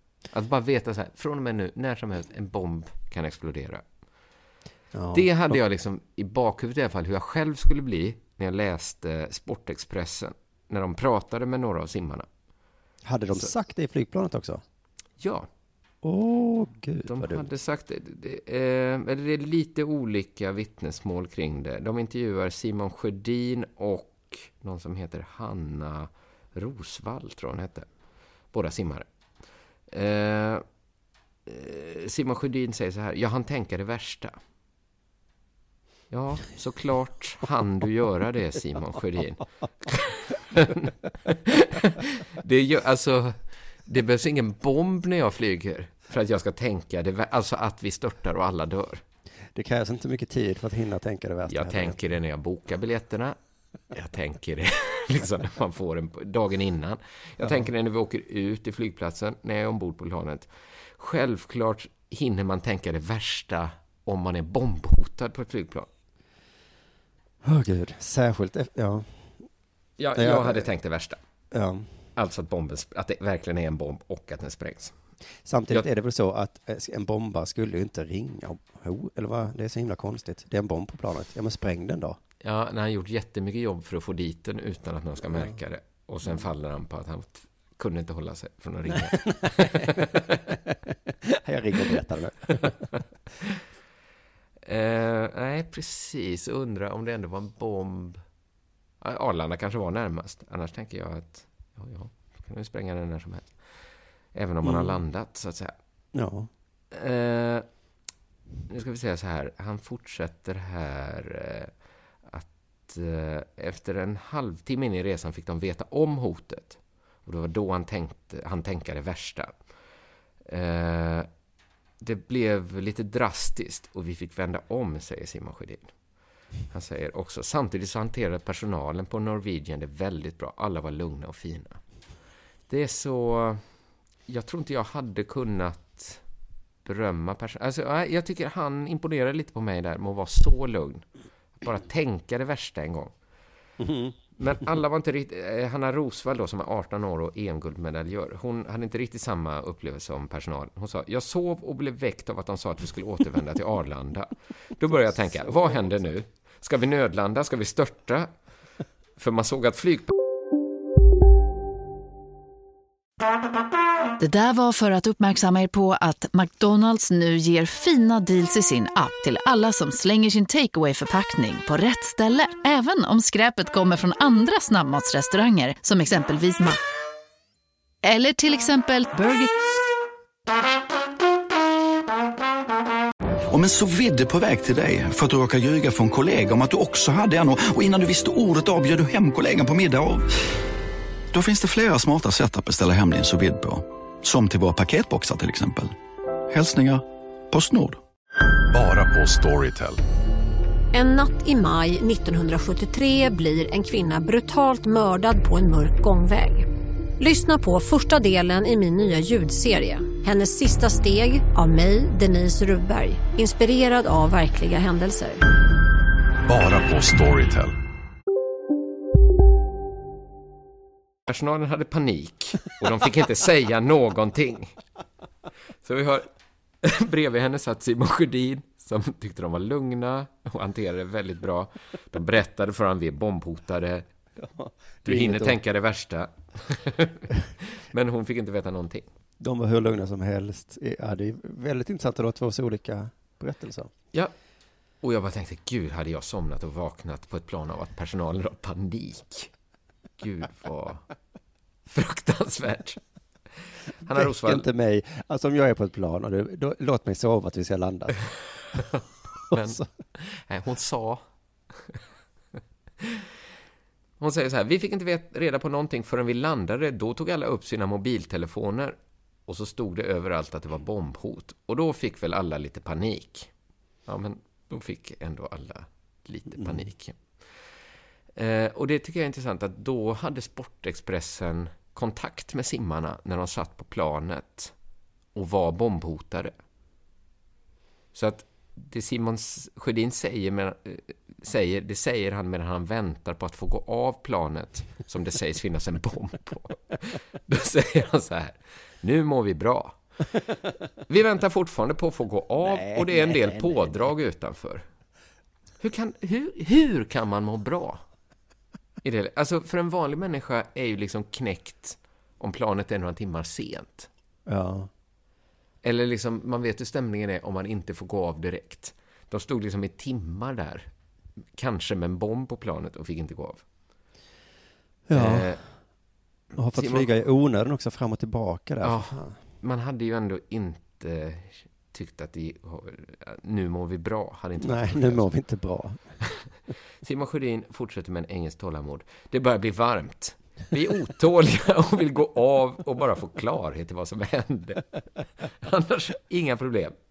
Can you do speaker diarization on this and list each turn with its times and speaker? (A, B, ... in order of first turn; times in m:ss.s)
0:00.3-0:03.8 A
0:04.9-0:05.6 B
0:05.1-0:12.3 A
0:13.0-0:14.6 B
0:15.2-0:15.5 A
0:16.0-0:17.5 B
0:17.1-0:27.9 A
0:28.5-0:29.1 A
0:29.9-0:30.6 A
0:31.5-0:34.4 A
0:36.1-0:49.0 A
0:49.5-0:52.0 B
0:51.5-0:53.4 A
0:53.9-1:05.9 A
1:07.4-1:09.4 B
1:10.0-1:11.2 A
1:10.2-1:10.7 B
1:11.5-1:11.9 B
1:12.2-1:14.9 A
1:15.4-1:22.2 B
1:22.4-1:30.4 A
1:28.9-1:32.8 B
1:32.6-1:33.6 A
1:34.7-1:38.2 A
1:39.0-1:43.6 A
1:44.3-1:45.8 A
1:44.6-1:45.0 B
1:46.1-1:46.5 B
1:46.9-1:47.7 A
1:48.7-1:51.7 A
1:52.2-1:59.6 A
2:00.4-2:01.3 A
2:02.0-2:05.9 A
2:06.7-2:11.8 A
2:12.7-2:13.7 A
2:14.3-2:16.2 A
2:16.8-2:21.0 A
2:21.6-2:23.1 A
2:23.8-2:24.2 B
2:24.4-2:38.3 A
2:35.0-2:35.9 B
2:39.2-2:40.1 A
2:44.2-2:56.8 C
2:58.0-2:59.5 C
3:03.5-3:10.3 D
3:11.3-3:16.0 D
3:16.5-3:18.0 D
3:18.7-3:20.0 E
3:20.9-3:26.7 F
3:27.2-3:35.4 F
3:36.5-3:37.7 E
3:41.3-3:44.8 A
3:45.8-3:46.3 A
3:46.8-3:54.0 A
3:54.4-3:55.6 B
3:55.0-3:59.1 A
3:59.4-4:03.9 B
4:05.0-4:09.5 A
4:10.2-4:11.0 A
4:11.9-4:13.0 A
4:14.0-4:14.7 A
4:14.1-4:18.3 B
4:19.5-4:19.9 B
4:19.5-4:21.2 A
4:24.2-4:33.5 A
4:34.1-4:37.4 A
4:36.6-4:36.9 B
4:38.4-4:44.7 A
4:45.4-4:46.5 A
4:48.1-5:00.0 A
5:01.1-5:04.8 A
5:02.6-5:04.0 B
5:05.8-5:08.0 A
5:09.0-5:14.1 A
5:14.5-5:14.9 B
5:15.8-5:20.9 A
5:21.6-5:23.6 A
5:25.1-5:25.6 B
5:25.1-5:25.6 A
5:26.6-5:29.4 B
5:26.7-5:27.1 A
5:28.8-5:35.3 A
5:34.6-5:36.0 B
5:37.0-5:47.0 A